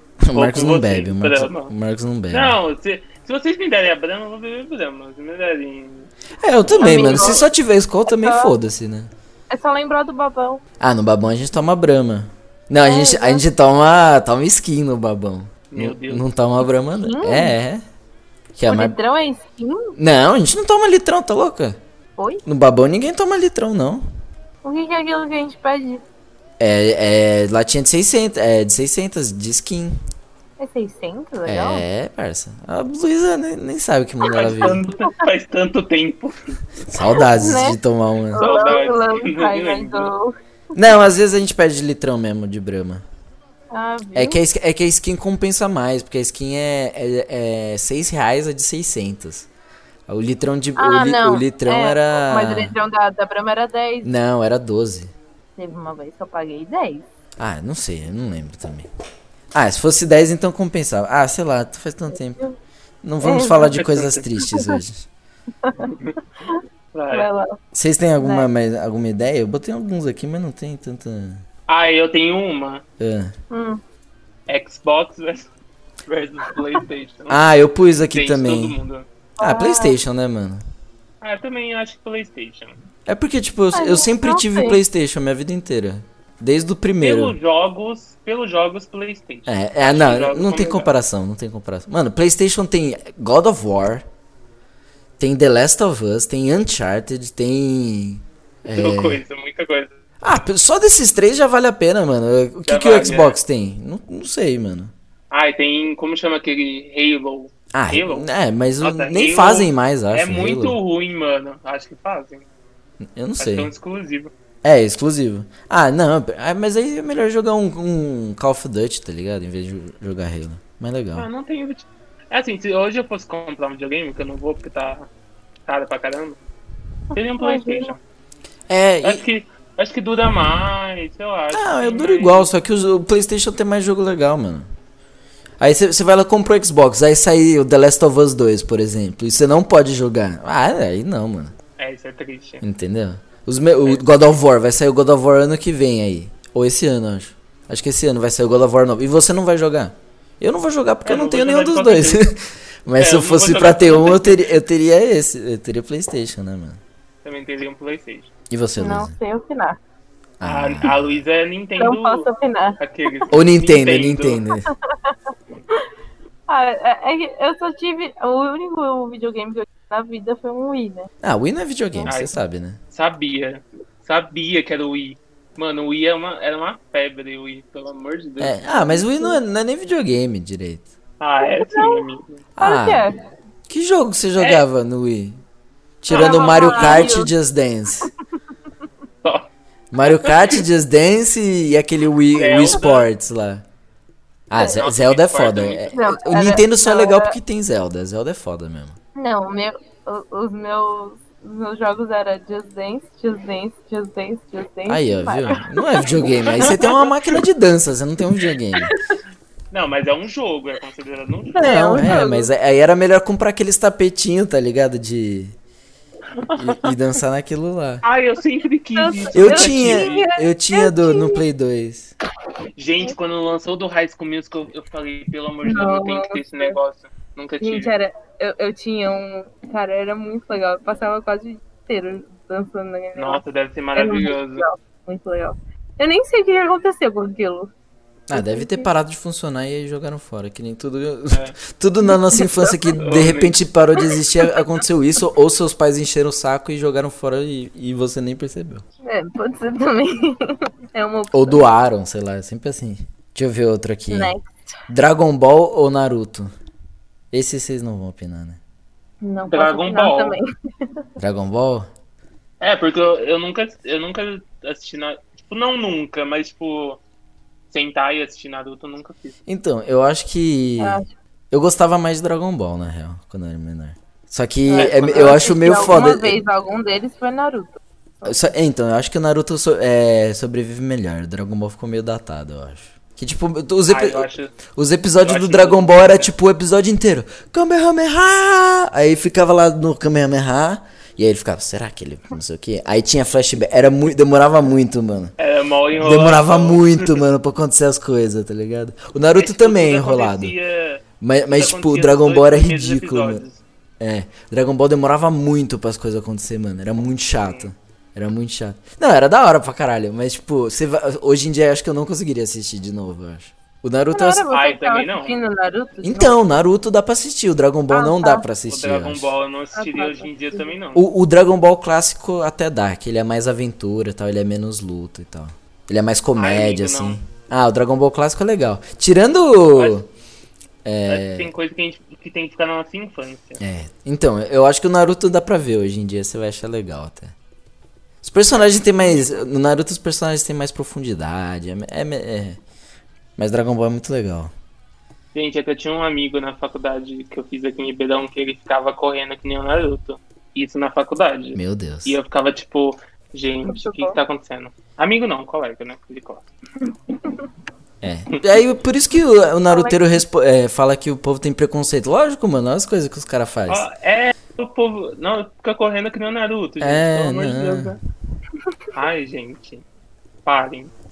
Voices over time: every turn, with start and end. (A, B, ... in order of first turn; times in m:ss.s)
0:00.2-0:02.6 A
0:00.3-0:01.7 B
0:02.3-0:06.1 B
0:06.4-0:09.1 A
0:06.6-0:07.4 B
0:06.8-0:07.4 C
0:08.1-0:08.5 C
0:09.5-0:10.6 C
0:10.8-0:17.8 A
0:12.8-0:13.4 C
0:15.7-0:16.2 B
0:16.9-0:17.6 C
0:18.5-0:18.9 A
0:18.7-0:20.0 C
0:20.0-0:21.8 A
0:22.2-0:22.4 C
0:22.4-0:24.0 A
0:24.6-0:26.0 C
0:26.6-0:30.0 A
0:30.6-0:31.8 C
0:31.4-0:34.8 A
0:34.3-0:36.6 B
0:34.4-0:35.0 C
0:36.9-0:38.4 A
0:37.3-0:37.8 C
0:38.3-0:40.3 C
0:38.4-0:40.1 B
0:40.7-0:43.0 A
0:43.7-0:44.4 C
0:44.1-0:49.5 A
0:50.1-0:52.7 A
0:50.8-0:54.1 C
0:54.0-0:55.1 A
0:55.6-0:57.0 C
0:57.4-0:58.9 A
0:59.5-1:02.4 A
1:02.1-1:02.6 C
1:03.0-1:05.1 A
1:03.2-1:03.8 C
1:03.7-1:04.2 B
1:04.5-1:04.8 C
1:05.6-1:05.9 C
1:05.8-1:06.2 B
1:06.4-1:07.6 C
1:06.9-1:07.3 B
1:07.7-1:11.4 A
1:08.2-1:08.5 C
1:11.7-1:12.8 B
1:13.0-1:13.3 A
1:13.5-1:13.8 C
1:14.5-1:15.5 B
1:16.1-1:17.4 B
1:17.3-1:18.8 A
1:18.1-1:19.0 B
1:19.4-1:20.0 C
1:19.4-1:20.6 A
1:21.2-1:22.8 B
1:23.0-1:27.4 A
1:23.7-1:24.8 C
1:27.0-1:30.9 B
1:29.5-1:34.0 A
1:35.2-1:39.2 A
1:38.7-1:40.0 B
1:40.2-1:44.9 A
1:42.6-1:43.4 B
1:45.3-1:48.2 B
1:47.7-1:50.8 A
1:48.8-1:52.4 B
1:53.0-1:53.7 A
1:53.4-1:54.3 B
1:54.6-2:01.3 A
2:01.2-2:05.1 B
2:05.7-2:06.4 B
2:07.1-2:08.0 C
2:07.1-2:08.0 B
2:08.7-2:09.2 A
2:09.0-2:12.5 B
2:11.5-2:14.7 A
2:15.6-2:21.5 A
2:21.8-2:22.6 B
2:22.6-2:36.8 A
2:31.0-2:32.3 B
2:33.0-2:34.5 B
2:37.2-2:38.3 B
2:38.5-2:39.1 A
2:38.8-2:39.8 C
2:40.4-2:41.0 A
2:40.4-2:42.3 B
2:41.8-2:43.1 C
2:42.8-2:44.4 B
2:43.3-2:44.7 A
2:46.5-2:51.1 C
2:51.2-2:52.8 A
2:52.1-2:52.4 B
2:52.9-2:58.6 B
2:58.4-3:00.9 A
2:58.7-2:59.4 C
3:01.2-3:02.4 B
3:01.4-3:02.0 C
3:02.6-3:03.0 A
3:02.6-3:03.2 C
3:03.7-3:05.4 A
3:04.4-3:04.6 B
3:06.0-3:08.1 A
3:06.1-3:07.1 B
3:06.1-3:07.3 C
3:09.9-3:13.6 A
3:10.0-3:10.6 B
3:12.3-3:13.1 B
3:14.5-3:19.0 A
3:14.6-3:16.0 B
3:15.9-3:17.4 C
3:19.1-3:26.7 C
3:24.9-3:28.9 A
3:26.5-3:27.4 B
3:29.7-3:32.1 B
3:31.5-3:32.5 C
3:31.6-3:35.5 A
3:36.4-3:36.9 B
3:36.5-3:38.0 A
3:38.0-3:40.2 B
3:39.0-3:41.4 C
3:39.3-3:42.1 A
3:42.8-3:47.9 B
3:45.6-3:46.8 C
3:47.6-3:53.4 C
3:53.2-3:54.7 B
3:54.0-3:57.7 C
3:58.3-4:08.8 A
3:58.3-3:58.9 C
4:01.3-4:01.6 B
4:02.3-4:02.7 C
4:03.0-4:03.6 B
4:09.0-4:11.7 C
4:11.3-4:14.3 A
4:14.1-4:14.8 C
4:14.9-4:16.5 A
4:17.3-4:18.6 A
4:19.2-4:21.0 C
4:19.5-4:20.4 B
4:21.2-4:21.9 A
4:22.6-4:27.0 B
4:27.7-4:29.4 B
4:29.5-4:36.4 A
4:30.8-4:31.1 C
4:34.7-4:38.4 C
4:34.7-4:35.9 B
4:38.2-4:55.3 A
4:43.9-4:44.6 B
4:45.2-4:46.3 B
4:55.4-4:57.2 B
4:55.9-5:00.5 A
4:59.3-5:03.6 B
5:01.2-5:03.4 A
5:04.0-5:14.4 A
5:07.4-5:07.7 B
5:14.1-5:16.4 C
5:14.5-5:15.4 B
5:16.0-5:19.3 A
5:17.9-5:18.4 C
5:18.7-5:21.0 B
5:19.7-5:20.6 C
5:20.9-5:30.1 A
5:26.4-5:27.2 B
5:29.7-5:30.0 B
5:30.8-5:31.5 A
5:31.1-5:33.6 B
5:33.6-5:37.3 A
5:38.2-5:42.6 A
5:39.0-5:39.4 B
5:43.4-5:44.5 A
5:45.3-5:56.4 B
5:51.5-5:52.2 A
5:53.6-5:54.2 C
5:58.0-6:03.8 A
5:59.6-6:00.0 C
6:03.7-6:08.0 B
6:06.8-6:08.0 A
6:08.9-6:09.8 B
6:10.4-6:10.9 B